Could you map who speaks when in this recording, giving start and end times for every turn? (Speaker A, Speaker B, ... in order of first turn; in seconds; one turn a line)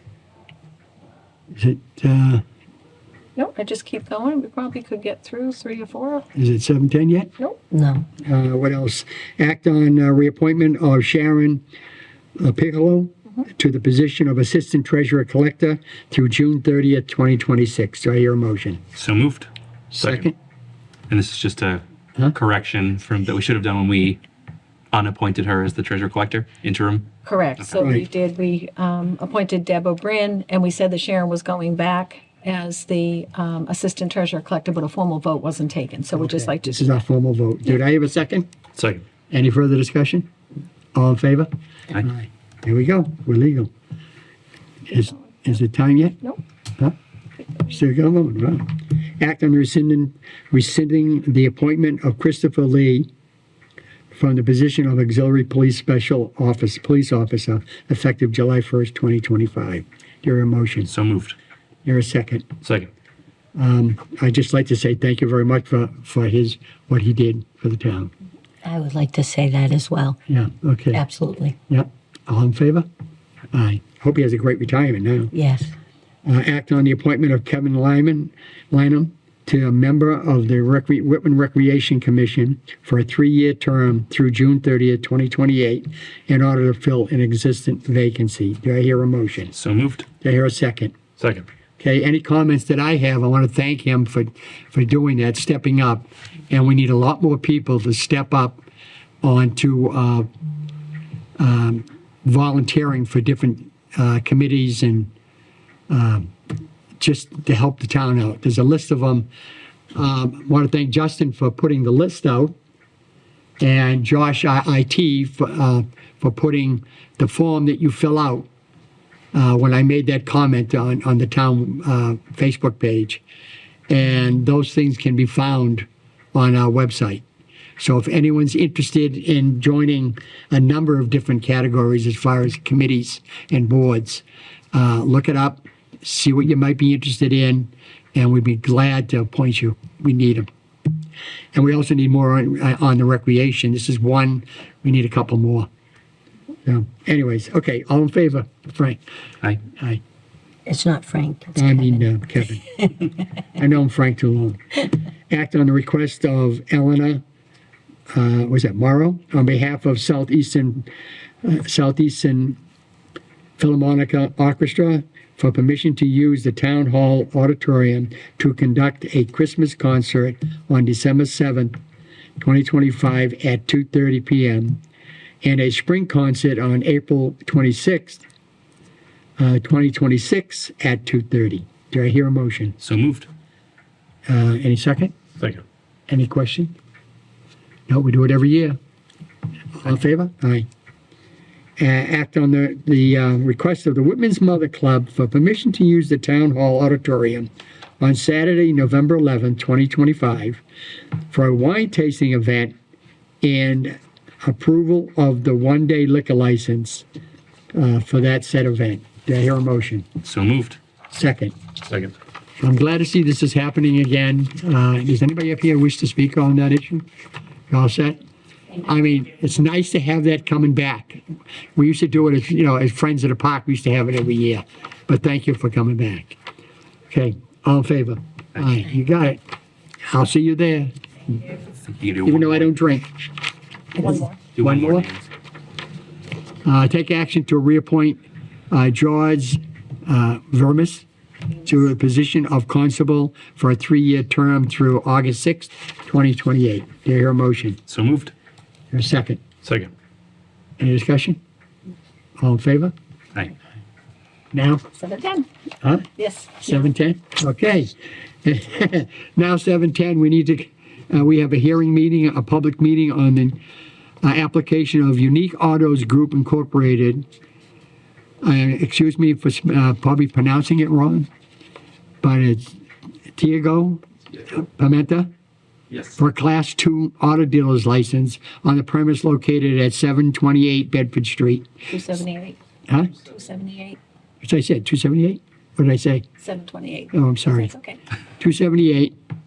Speaker A: 1.5-2.4
Speaker B: 3.4-6.3
Speaker A: 6.3-7.3
Speaker C: 7.7-8.0
Speaker A: 8.2-11.6
Speaker A: 12.4-18.8
Speaker D: 18.9-20.3
Speaker A: 19.9-20.3
Speaker D: 21.1-24.2
Speaker D: 24.9-27.8
Speaker B: 27.2-37.0
Speaker A: 27.8-28.1
Speaker A: 36.1-38.5
Speaker D: 38.7-39.0
Speaker A: 39.3-40.3
Speaker A: 40.9-43.7
Speaker A: 44.9-46.2
Speaker A: 47.6-48.7
Speaker A: 49.2-53.1
Speaker A: 54.1-60.9
Speaker D: 60.8-61.4
Speaker A: 61.8-62.5
Speaker D: 62.6-62.9
Speaker A: 63.5-68.1
Speaker C: 68.6-70.2
Speaker A: 70.3-71.0
Speaker C: 70.9-71.5
Speaker A: 71.7-72.9
Speaker A: 73.5-75.3
Speaker C: 75.3-75.7
Speaker A: 76.2-89.5
Speaker D: 89.5-90.1
Speaker A: 90.2-90.9
Speaker D: 91.2-91.5
Speaker A: 91.8-98.6
Speaker A: 99.2-100.3
Speaker A: 101.4-105.1
Speaker A: 105.9-106.3
Speaker A: 107.0-109.3
Speaker A: 109.9-112.5
Speaker A: 113.6-118.5
Speaker A: 119.3-123.2
Speaker A: 123.9-127.2
Speaker A: 127.8-140.5
Speaker A: 141.5-145.7
Speaker A: 146.7-149.0
Speaker A: 149.6-150.0
Speaker C: 150.7-152.1
Speaker A: 151.6-152.7
Speaker A: 153.5-157.2
Speaker A: 158.1-160.9
Speaker A: 161.4-162.6
Speaker A: 163.6-171.8
Speaker A: 172.4-174.8
Speaker A: 175.4-178.2
Speaker A: 179.4-182.8
Speaker D: 182.8-183.3
Speaker A: 184.3-185.1
Speaker D: 185.4-185.6
Speaker A: 186.1-186.7
Speaker A: 187.9-188.8
Speaker A: 189.8-190.7
Speaker A: 191.8-197.5
Speaker A: 198.0-200.6
Speaker A: 201.3-202.7
Speaker A: 203.4-207.0
Speaker A: 207.7-210.1
Speaker D: 210.2-210.8
Speaker A: 211.1-211.5
Speaker D: 211.8-212.1
Speaker A: 212.6-217.0
Speaker A: 217.7-218.2
Speaker A: 218.8-221.2
Speaker A: 221.8-226.4
Speaker A: 227.1-229.4
Speaker A: 230.1-230.9
Speaker D: 231.7-232.7
Speaker A: 232.2-233.1
Speaker A: 233.9-235.1
Speaker D: 234.5-235.3
Speaker A: 236.6-238.2
Speaker A: 238.7-241.0
Speaker A: 241.6-247.8
Speaker D: 247.9-248.3
Speaker A: 248.9-249.4
Speaker D: 249.6-249.9
Speaker A: 250.8-251.4
Speaker A: 252.4-252.9
Speaker A: 254.5-254.8
Speaker B: 254.9-255.5
Speaker A: 255.8-256.1
Speaker B: 256.2-256.9
Speaker A: 256.6-263.6
Speaker A: 264.2-267.2
Speaker A: 268.4-271.3
Speaker A: 272.2-272.8
Speaker A: 273.4-275.3
Speaker A: 276.1-281.7
Speaker B: 281.9-282.6
Speaker A: 282.9-283.1
Speaker B: 283.2-284.0
Speaker A: 284.4-286.2
Speaker B: 286.4-288.0
Speaker A: 287.1-287.7
Speaker A: 288.4-289.1